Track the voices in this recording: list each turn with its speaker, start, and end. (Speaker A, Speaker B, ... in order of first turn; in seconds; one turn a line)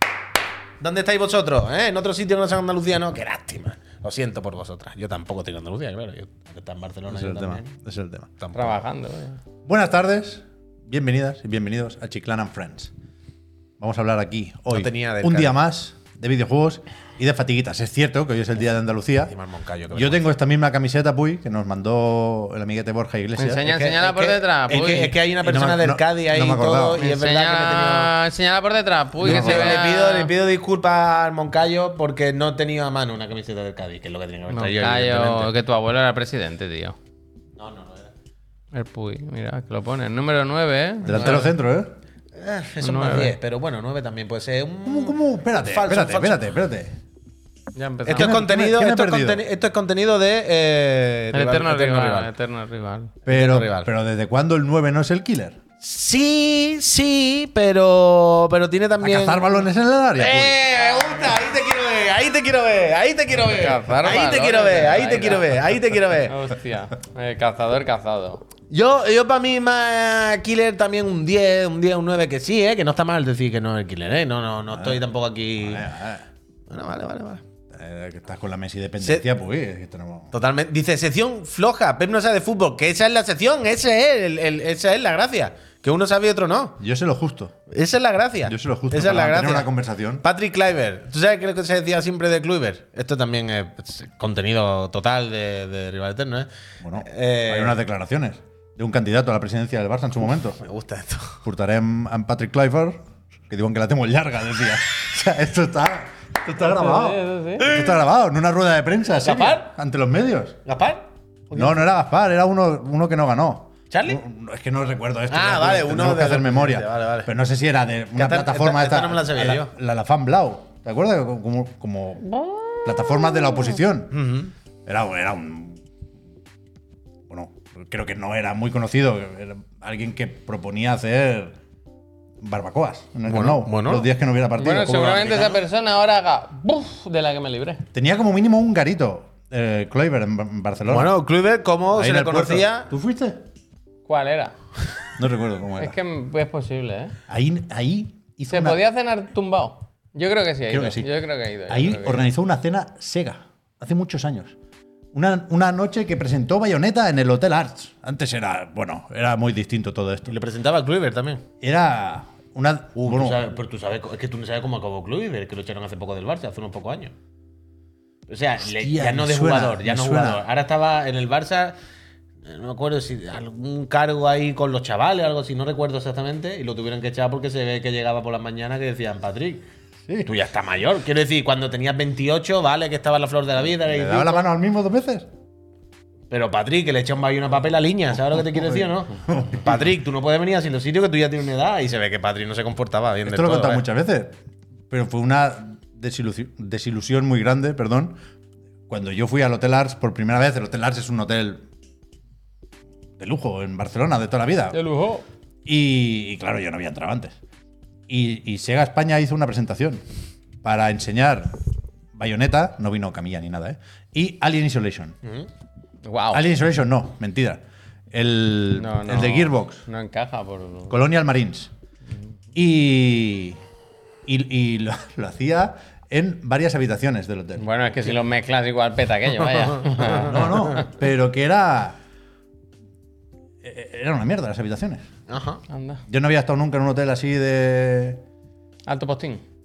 Speaker A: 0.8-7.7
Speaker B: 7.1-8.3
Speaker A: 8.4-8.8
Speaker C: 8.5-9.4
Speaker B: 9.7-12.9
Speaker B: 13.8-19.4
Speaker A: 14.7-15.6
Speaker A: 19.3-20.2
Speaker B: 19.9-23.6
Speaker C: 23.4-25.1
Speaker A: 23.6-28.1
Speaker B: 25.4-27.0
Speaker C: 27.0-30.3
Speaker B: 29.2-29.8
Speaker A: 29.2-35.5
Speaker C: 34.5-37.0
Speaker A: 37.6-38.1
Speaker C: 38.7-41.5
Speaker B: 41.0-41.9
Speaker A: 41.1-41.4
Speaker A: 42.3-46.5
Speaker C: 42.8-43.3
Speaker B: 44.8-46.9
Speaker C: 47.7-48.4
Speaker A: 48.0-52.3
Speaker B: 48.1-49.4
Speaker C: 51.3-53.1
Speaker B: 53.2-55.6
Speaker A: 53.3-53.9
Speaker A: 55.8-59.6
Speaker B: 59.0-60.6
Speaker A: 60.1-66.3
Speaker C: 60.7-61.3
Speaker C: 63.4-65.5
Speaker C: 66.2-68.4
Speaker A: 68.7-75.9
Speaker B: 74.7-75.0
Speaker B: 75.6-76.3
Speaker A: 76.7-77.4
Speaker B: 77.7-80.3
Speaker A: 80.3-86.8
Speaker B: 86.8-87.5
Speaker A: 87.7-89.7
Speaker B: 88.5-90.2
Speaker A: 90.2-96.5
Speaker B: 96.8-100.6
Speaker A: 97.0-97.8
Speaker A: 100.6-101.4
Speaker B: 101.4-110.6
Speaker C: 106.6-107.7
Speaker A: 107.6-108.0
Speaker A: 109.2-109.7
Speaker A: 110.7-111.8
Speaker B: 111.5-124.2
Speaker A: 113.9-114.2
Speaker A: 115.3-117.3
Speaker A: 118.2-119.7
Speaker A: 124.1-124.5
Speaker B: 124.8-125.8
Speaker B: 127.3-131.5
Speaker B: 132.4-135.5
Speaker A: 133.2-134.1
Speaker C: 134.6-137.9
Speaker A: 135.2-135.5
Speaker B: 137.9-141.1
Speaker A: 140.9-142.9
Speaker B: 141.9-143.4
Speaker C: 144.1-144.5
Speaker B: 145.2-145.9
Speaker C: 145.8-147.1
Speaker B: 147.3-148.8
Speaker C: 148.5-152.3
Speaker B: 150.7-151.1
Speaker B: 151.7-154.5
Speaker B: 155.1-160.4
Speaker A: 160.3-161.4
Speaker B: 161.6-163.5
Speaker A: 163.0-167.1
Speaker A: 168.3-171.8
Speaker B: 168.7-170.4
Speaker A: 172.4-179.7
Speaker A: 180.2-184.4
Speaker B: 183.9-185.3
Speaker A: 186.3-193.8
Speaker B: 188.5-189.9
Speaker B: 193.2-194.4
Speaker B: 194.9-198.2
Speaker B: 198.9-201.6
Speaker B: 203.2-204.8
Speaker C: 204.7-205.2
Speaker B: 205.6-207.4
Speaker B: 208.1-210.0
Speaker B: 210.6-211.6
Speaker B: 212.1-215.2
Speaker A: 215.2-215.5
Speaker C: 216.0-216.4
Speaker B: 216.3-219.8
Speaker C: 218.7-221.0
Speaker B: 220.9-221.7
Speaker B: 222.5-223.6
Speaker B: 224.2-227.7
Speaker C: 227.6-230.9
Speaker B: 230.1-232.0
Speaker B: 233.6-235.0
Speaker A: 235.3-235.6
Speaker C: 235.7-236.0
Speaker B: 236.1-238.2
Speaker C: 238.9-239.4